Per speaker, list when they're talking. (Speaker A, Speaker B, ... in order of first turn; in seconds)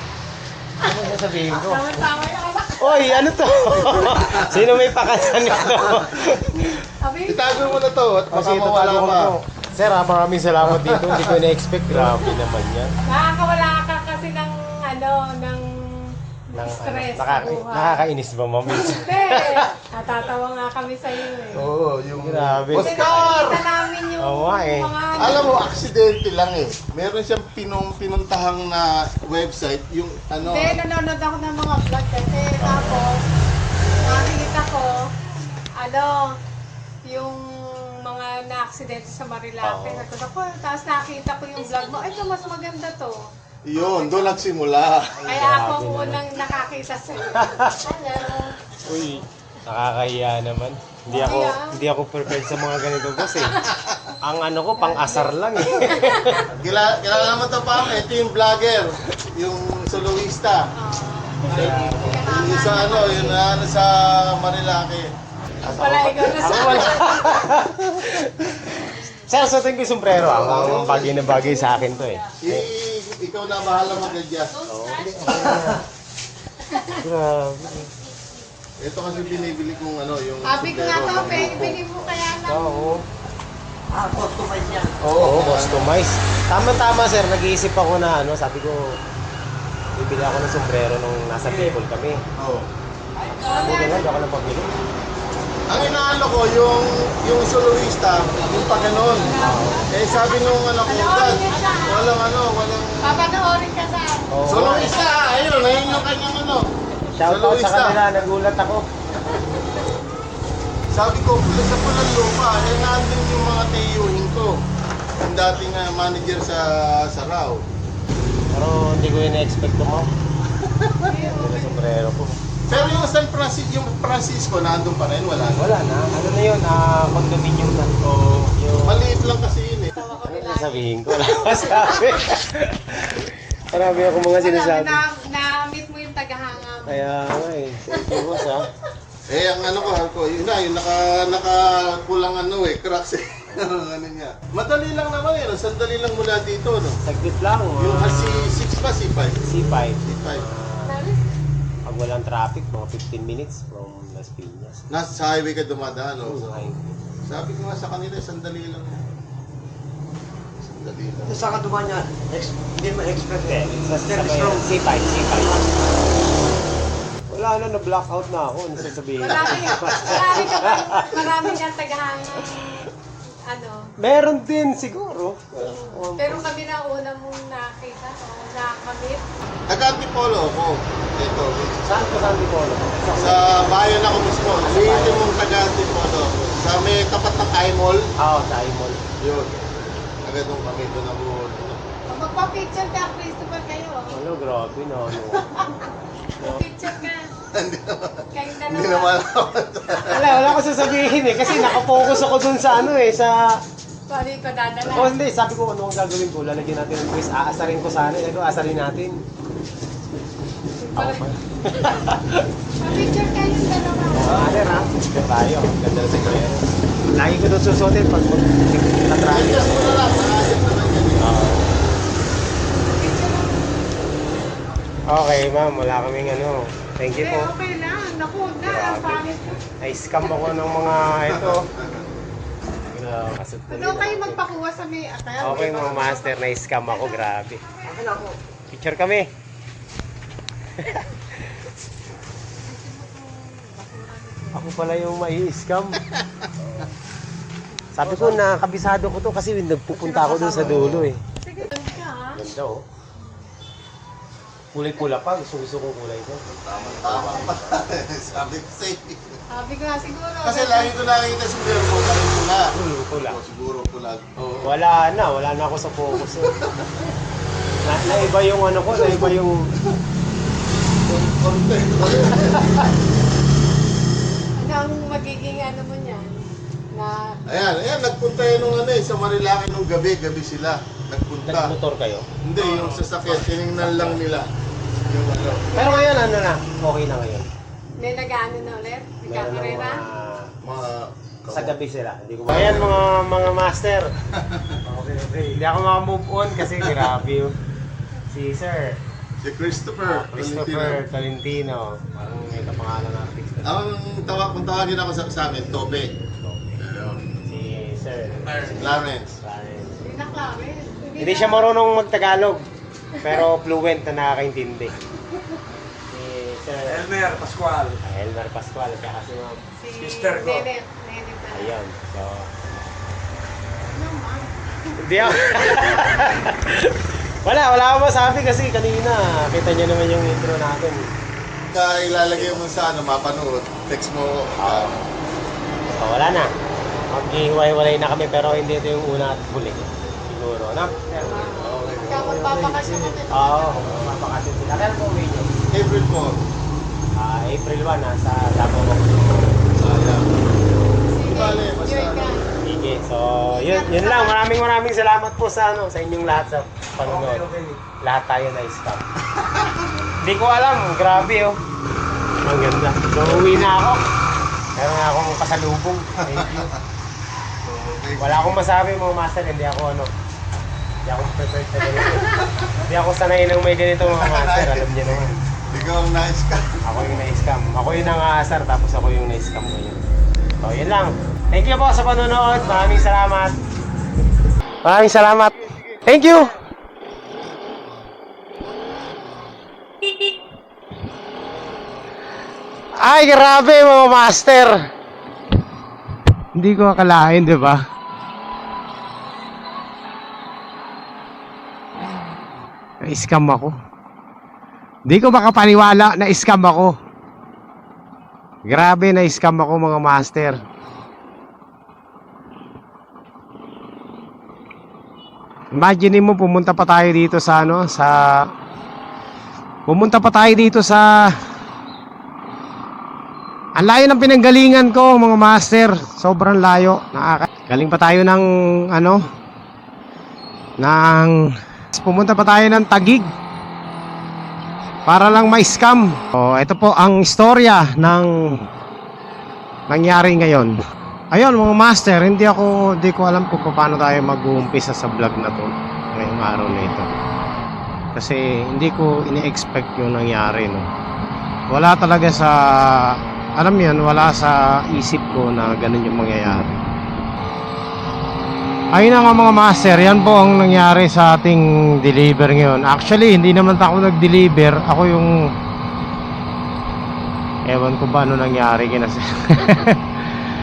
Speaker A: 0.8-1.8, 2.8-6.8, 8.3-12.9, 16.5-19.7, 22.2-23.5, 24.2-24.9, 32.6-33.0, 39.6-40.0, 45.2-46.2, 47.3-47.8, 48.8-53.6, 54.2-56.4, 61.5-62.2, 65.6-68.6, 69.2-72.7, 74.7-75.8, 77.0-77.9, 81.4-81.7, 82.4-83.0, 85.1-88.9, 89.9-92.2, 93.3-94.7, 99.3-99.9, 104.3-105.0, 107.1-108.9, 118.5-120.1, 121.2-122.4, 125.6-129.2, 130.2-135.0, 136.8-138.7, 147.0-148.5, 149.4-150.9, 151.8-154.8, 156.2-157.0, 163.3-165.8, 167.3-171.4, 174.0-176.5, 181.8-183.8, 184.4-185.3, 188.2-189.0, 194.1-195.7, 200.2-203.6, 204.8-209.2, 210.9-212.5, 214.1-220.1, 221.2-221.8, 225.1-227.5, 228.6-231.7, 232.9-234.4, 235.4-239.3, 244.5-246.0, 246.6-246.9, 247.9-251.2, 252.3-252.8, 254.7-256.4, 257.0-257.8, 262.7-263.4, 264.6-266.6, 267.8-269.7, 272.4-272.8, 281.4-282.2, 283.8-284.2, 285.7-287.5, 289.2-290.5, 291.5-294.1, 294.8-297.5, 298.3-299.0, 300.0-303.8, 306.2-306.8, 307.5-310.1, 311.2-312.6, 313.2-314.9, 316.1-317.3, 318.0-319.6, 321.5-322.8, 325.0-331.1, 332.2-332.6, 334.6-335.0, 335.9-336.5, 337.1-345.5, 347.2-349.7, 352.6-359.0, 360.2-361.6, 362.4-364.0, 364.8-366.7, 368.2-370.1, 371.0-375.3, 376.8-380.0, 380.6-383.6, 384.8-386.5, 393.0-394.8, 396.5-397.8, 403.1-403.7, 405.1-406.9, 408.7-410.6, 415.7-418.4, 419.9-421.3, 423.8-429.2, 430.8-433.3, 435.1-438.6, 439.9-440.7, 441.3-447.1, 448.1-450.9, 451.7-456.8, 458.9-465.3, 467.7-470.2
Speaker B: 1.5-3.2, 7.0-7.8, 13.0-18.1, 18.7-21.7, 22.7-25.7, 30.4-33.2, 34.0-35.1, 35.8-36.4, 37.0-44.4, 45.3-48.6, 51.1-51.8, 54.8-56.5, 60.7-63.4, 65.6-67.2, 70.6-72.3, 74.6-75.3, 80.4-82.9, 93.4-94.0, 99.1-102.1, 103.0-105.3, 121.0-121.8, 122.7-123.1, 129.9-132.3, 134.4-137.1, 150.8-151.2, 169.2-172.9, 173.4-173.9, 175.6-179.2, 192.1-194.1, 196.4-197.3, 198.3-199.2, 200.0-202.0, 204.1-205.1, 210.8-212.0, 212.8-214.6, 222.7-223.7, 227.1-229.6, 233.7-238.3, 242.6-244.8, 250.0-252.4, 253.2-253.4, 256.7-257.5, 259.5-260.9, 274.6-277.4, 285.7-286.1, 288.0-290.0, 310.0-311.7, 319.8-321.7, 323.9-326.2, 341.2-344.0, 351.0-352.5, 353.5-354.4
Speaker C: 3.8-4.5, 5.6-6.1, 7.2-9.3, 10.7-11.4, 11.9-12.2, 21.5-23.7, 25.1-30.8, 43.6-45.2, 53.7-54.0, 56.5-60.7, 61.5-65.1, 66.3-68.1, 70.1-71.5, 72.4-74.5, 78.8-82.2, 85.0-86.0, 92.4-92.7, 95.7-103.3, 104.5-106.7, 107.2-108.0, 110.9-114.6, 115.2-117.7, 120.6-121.3, 122.7-125.7, 128.0-129.9, 139.3-147.0, 147.8-149.5, 150.0-150.5, 154.9-156.7, 157.2-159.0, 160.6-161.4, 169.4-170.2, 179.7-182.3, 183.1-188.1, 189.2-191.9, 197.5-200.6, 219.3-221.3, 231.3-232.0, 256.4-259.4, 260.4-264.7, 266.4-266.9, 268.9-270.0, 271.0-273.0, 277.4-281.7, 282.4-284.5, 285.0-285.7, 290.6-291.7, 292.5-293.0, 294.3-294.8, 296.8-297.1, 299.4-301.0, 303.6-306.1, 306.8-307.3, 308.7-309.3, 331.7-335.0, 341.5-342.4, 345.7-346.4, 349.8-352.4, 359.4-359.8, 363.2-363.7, 366.2-366.8, 367.6-368.6, 374.0-376.8
Speaker D: 75.2-75.8, 83.9-85.1, 161.2-164.7, 282.6-283.3, 308.4-308.7, 316.9-318.0, 319.9-320.7